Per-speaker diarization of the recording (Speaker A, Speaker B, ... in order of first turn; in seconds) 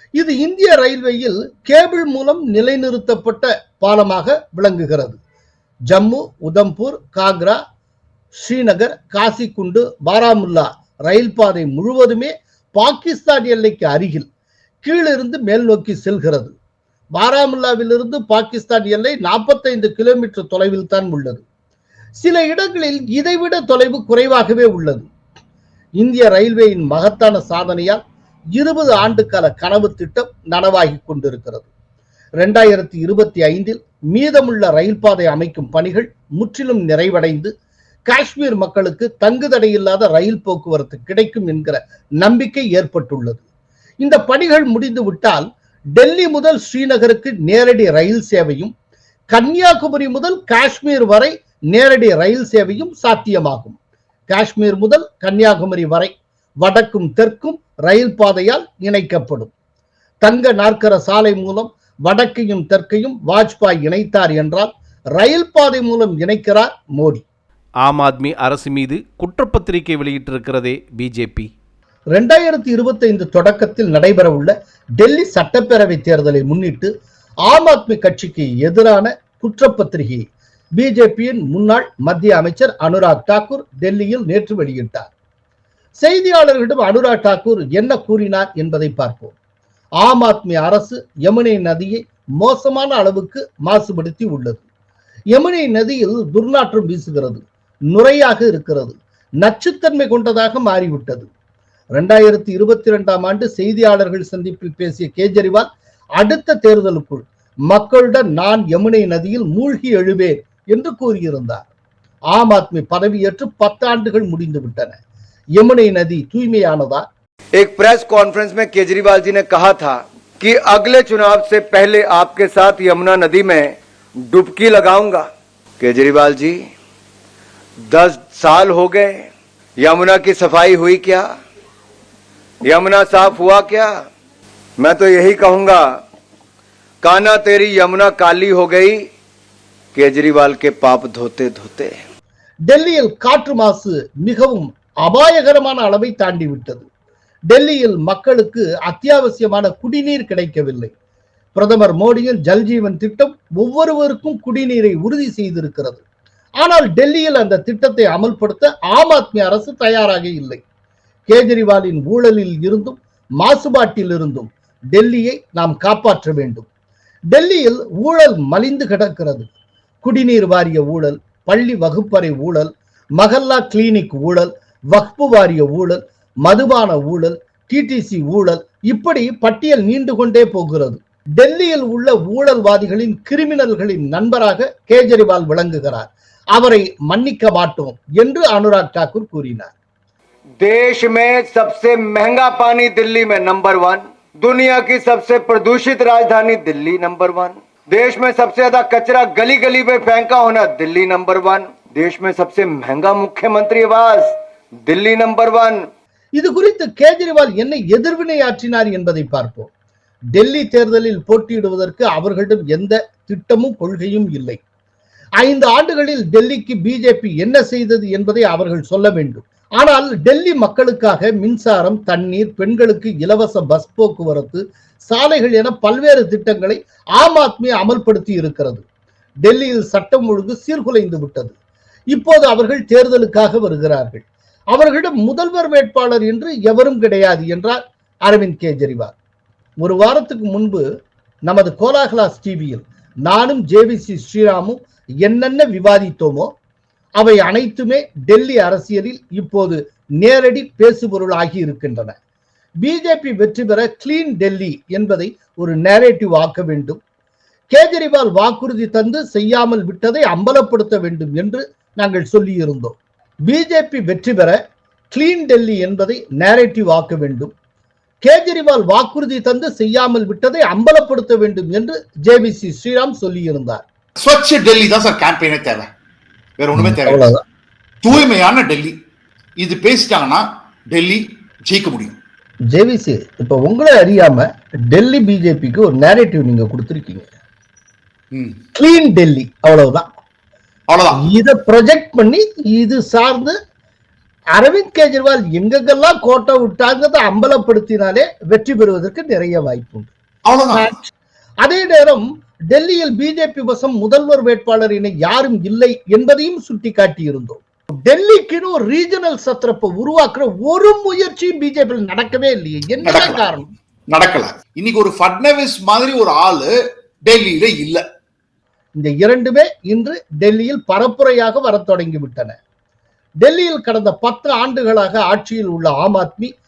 Speaker A: 0.2-5.2, 5.9-7.6, 8.3-14.3, 14.8-16.5, 17.1-21.4, 22.2-25.1, 26.0-28.0, 28.6-31.7, 32.4-37.5, 38.1-43.4, 44.0-48.7, 49.3-53.8, 54.3-56.1, 56.6-59.5, 60.2-67.2, 72.1-76.9, 77.5-80.3, 80.8-85.1, 86.0-89.3, 90.0-94.6, 95.3-101.3, 102.0-111.7, 112.3-115.0, 115.6-117.0, 142.7-146.8, 147.5-150.9, 151.6-156.0, 156.6-160.6, 161.3-166.7, 167.3-169.5, 170.0-189.7, 206.4-209.7, 210.3-214.6, 215.4-228.8, 229.4-231.6, 232.1-239.2, 239.8-240.8, 241.5-246.5, 247.2-252.2, 252.8-257.0, 257.7-264.6, 265.1-267.5, 268.2-273.8, 276.8-277.4, 282.7-287.3, 288.8-290.1, 291.2-293.6, 294.6-300.1, 300.7-301.1, 301.6-313.7, 319.0-322.6, 323.4-326.5
Speaker B: 67.8-71.5
Speaker C: 117.6-123.8, 124.3-125.3, 125.8-126.6, 127.9-129.3, 129.8-131.3, 132.7-134.1, 134.8-135.8, 137.0-139.0, 139.9-142.0, 190.6-204.3, 204.8-205.8
Speaker D: 274.2-275.9, 276.6-277.3, 278.0-278.9, 279.6-282.2, 290.9-291.2, 300.5-300.9, 313.0-313.4, 314.1-316.7, 317.3-318.0